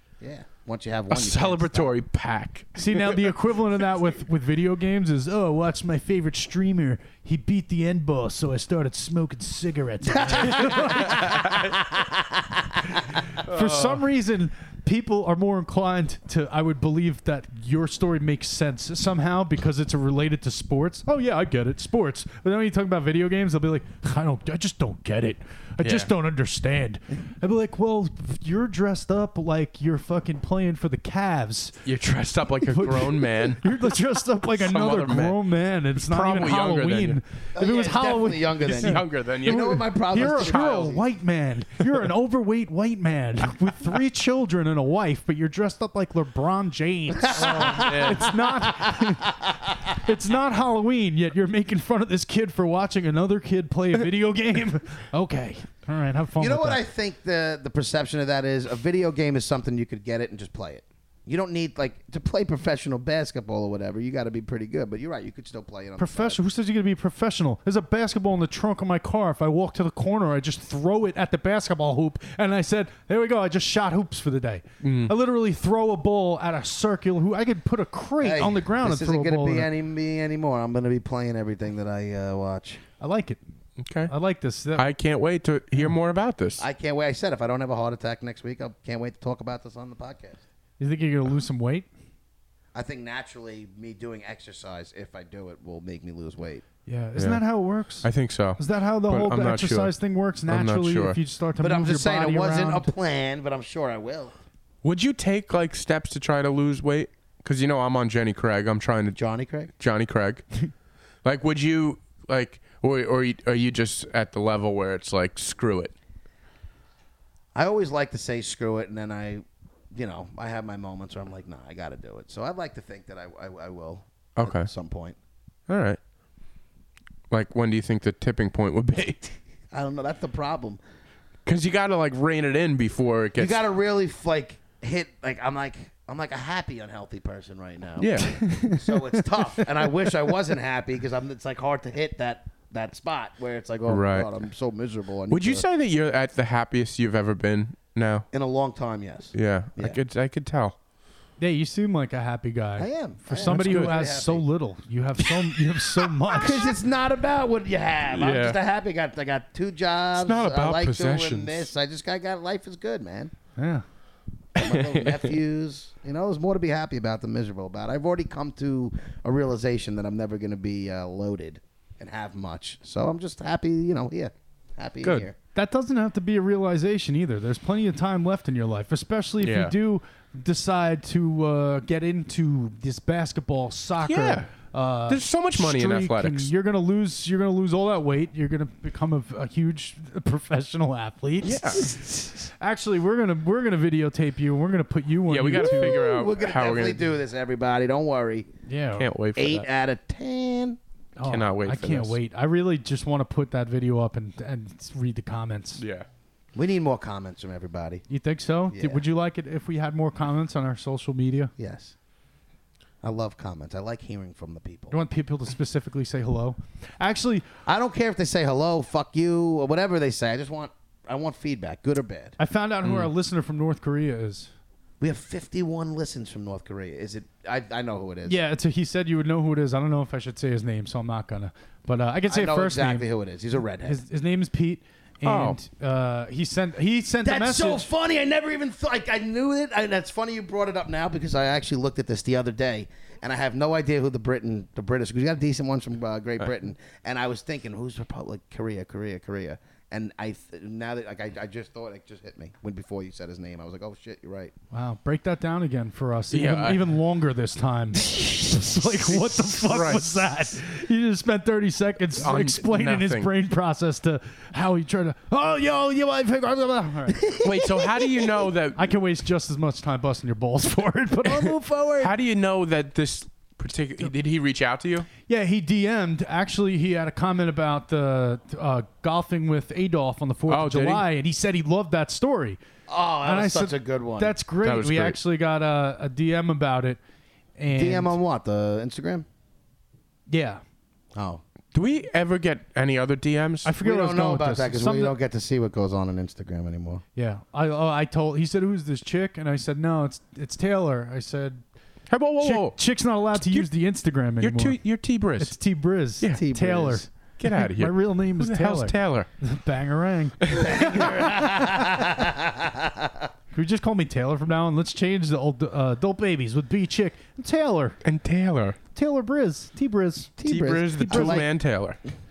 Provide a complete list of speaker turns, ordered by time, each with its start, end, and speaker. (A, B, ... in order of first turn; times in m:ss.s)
0:00.2-0:01.9 A
0:01.1-0:03.3 B
0:02.8-0:11.5 C
0:10.1-0:12.8 A
0:11.1-0:11.6 B
0:13.0-0:31.8 C
0:13.4-0:14.0 B
0:25.8-0:26.1 B
0:31.8-0:34.0 B
0:32.7-0:56.8 C
0:34.5-0:35.4 B
0:36.0-0:37.2 B
0:37.5-0:41.0 A
0:38.6-0:40.9 B
0:47.1-0:49.6 A
0:47.5-0:48.4 B
0:56.4-1:06.4 A
1:06.0-1:19.7 C
1:14.8-1:15.1 B
1:18.2-1:22.8 A
1:23.0-1:23.4 C
1:23.8-1:24.1 B
1:24.1-1:24.8 C
1:24.8-1:26.6 B
1:26.6-1:30.4 A
1:30.8-1:31.9 C
1:32.7-1:36.6 A
1:36.8-1:42.9 C
1:37.2-1:37.4 B
1:38.0-1:39.9 B
1:40.5-1:41.2 B
1:41.6-1:44.3 A
1:44.8-1:49.2 B
1:49.2-1:49.7 A
1:49.8-1:50.4 B
1:51.2-1:55.9 B
1:57.5-2:05.2 A
2:04.4-2:04.7 B
2:05.7-2:06.0 B
2:07.3-2:09.3 B
2:09.7-2:10.8 A
2:11.4-2:13.6 B
2:13.4-2:25.6 A
2:18.0-2:18.4 B
2:18.2-2:19.6 C
2:23.9-2:24.3 B
2:25.3-2:28.3 B
2:28.3-2:30.0 A
2:29.3-2:30.7 B
2:31.4-2:36.7 C
2:32.8-2:34.4 A
2:33.4-2:33.9 B
2:36.3-2:43.3 A
2:38.1-2:38.6 B
2:40.2-2:41.7 B
2:43.6-2:43.8 C
2:44.5-2:55.3 A
2:44.6-2:45.3 B
2:55.0-3:16.0 C
2:59.4-2:59.7 B
3:04.0-3:04.5 B
3:05.1-3:06.5 B
3:11.4-3:11.9 B
3:15.3-3:17.0 B
3:15.5-3:18.5 A
3:18.7-3:19.1 C
3:19.0-3:19.6 B
3:19.4-3:20.8 A
3:21.2-3:25.8 C
3:21.3-3:22.2 B
3:25.8-3:26.1 B
3:26.5-3:28.0 A
3:28.1-3:31.5 C
3:28.7-3:29.0 A
3:31.6-3:31.9 A
3:33.0-3:35.0 A
3:34.9-3:37.5 C
3:37.6-3:42.4 A
3:42.4-3:44.5 C
3:42.8-3:43.1 B
3:45.0-3:48.4 A
3:48.2-3:53.1 C
3:52.3-3:54.0 A
3:53.8-3:57.9 C
3:55.2-3:55.6 B
3:57.2-4:14.5 A
4:14.7-4:27.4 C
4:16.3-4:16.8 B
4:19.1-4:20.4 B
4:22.2-4:23.3 B
4:27.1-4:28.3 A
4:27.4-4:28.8 B
4:28.8-4:32.1 C
4:31.2-4:35.1 B
4:35.3-4:42.6 C
4:40.5-4:41.0 B
4:42.9-4:44.3 A
4:43.2-4:47.0 C
4:44.6-4:45.2 B
4:47.6-4:48.2 C
4:47.7-4:49.2 A
4:50.3-4:50.6 C
4:51.1-4:51.4 A
4:51.7-4:53.7 B
4:53.6-4:55.1 C
4:53.8-4:57.0 A
4:57.2-5:01.6 C
5:02.1-5:02.8 B
5:02.4-5:04.8 C
5:03.3-5:03.7 B
5:04.4-5:05.5 B
5:05.4-5:11.9 C
5:06.3-5:07.0 A
5:07.4-5:09.3 B
5:10.4-5:11.0 B
5:10.5-5:13.3 A
5:13.5-5:18.0 C
5:18.0-5:18.8 B
5:18.9-5:20.4 C
5:20.4-5:21.5 A
5:20.4-5:22.0 B
5:20.9-5:21.4 C